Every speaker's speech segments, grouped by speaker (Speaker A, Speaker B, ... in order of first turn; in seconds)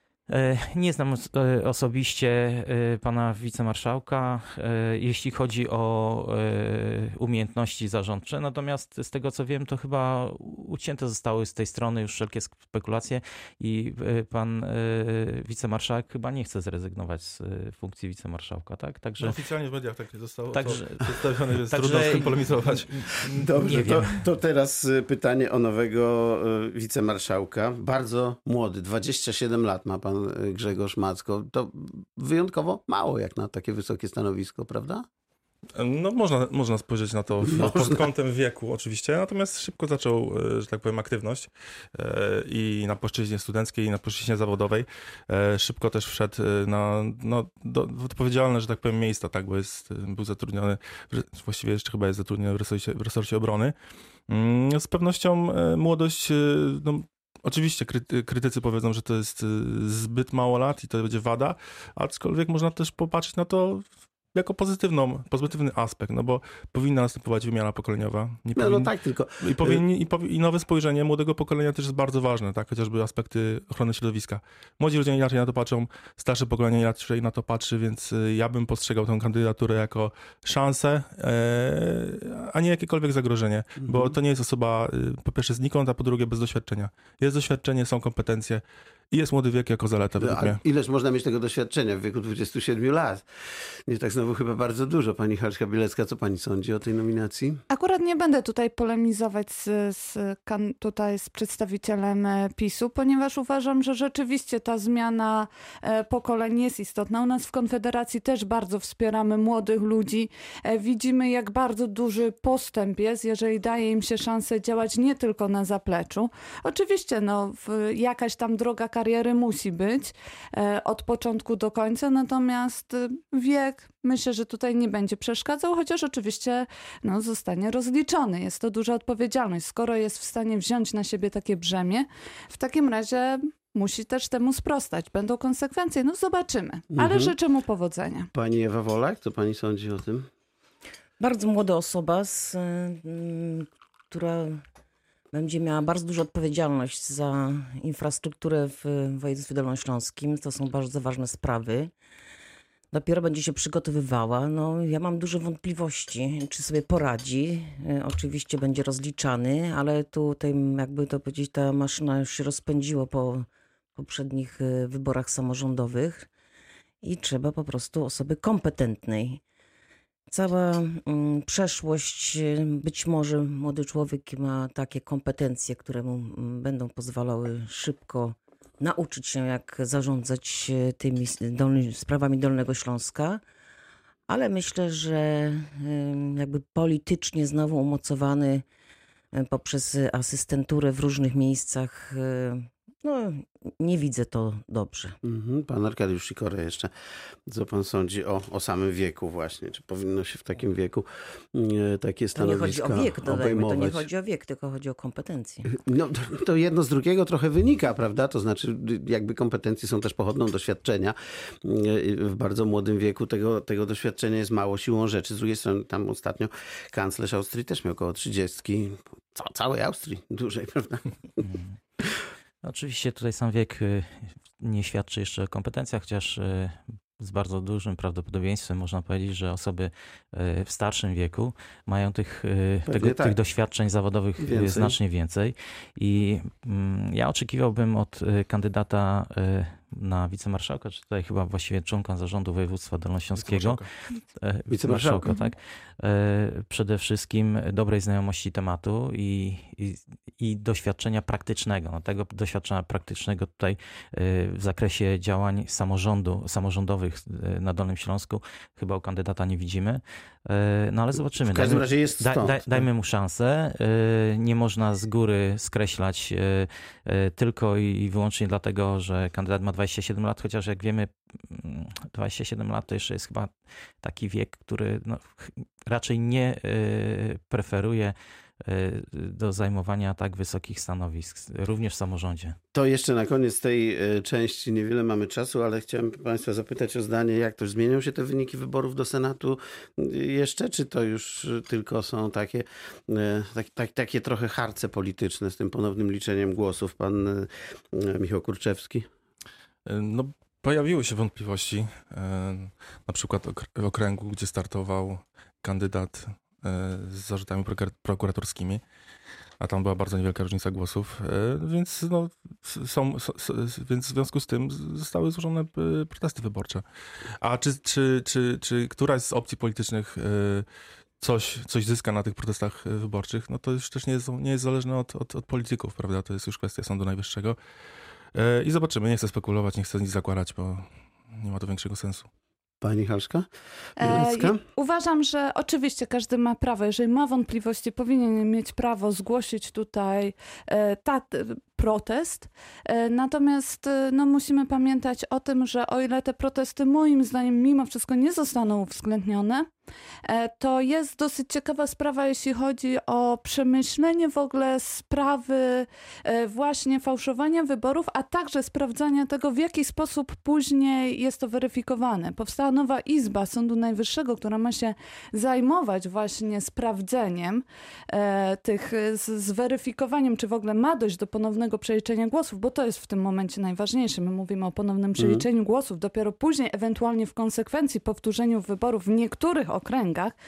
Speaker A: 0.3-19.4, 20.5-21.0, 21.7-24.2, 221.4-221.7, 222.6-243.8, 244.4-278.1, 278.7-282.6
Speaker B: 19.2-23.1, 35.8-53.8, 54.3-90.6, 243.4-243.9, 299.9-308.8, 309.6-316.9, 317.4-320.7, 321.2-327.6, 328.4-332.3
Speaker C: 23.3-35.1, 37.5-37.9, 68.6-69.8, 83.8-84.1, 90.2-93.2, 93.9-97.6, 136.9-137.3, 138.3-140.3, 195.2-196.9, 197.5-204.1, 205.7-221.4, 232.9-233.4, 234.4-235.0, 244.7-245.4, 261.4-262.8, 282.7-299.1, 332.8-333.5, 334.0-334.6, 375.2-375.5
Speaker D: 97.7-138.3, 334.0-349.7, 350.2-380.4
Speaker E: 141.2-144.6, 145.3-151.9, 152.9-166.3, 167.0-169.4, 170.3-183.4, 184.3-188.6, 189.3-195.2, 202.4-205.7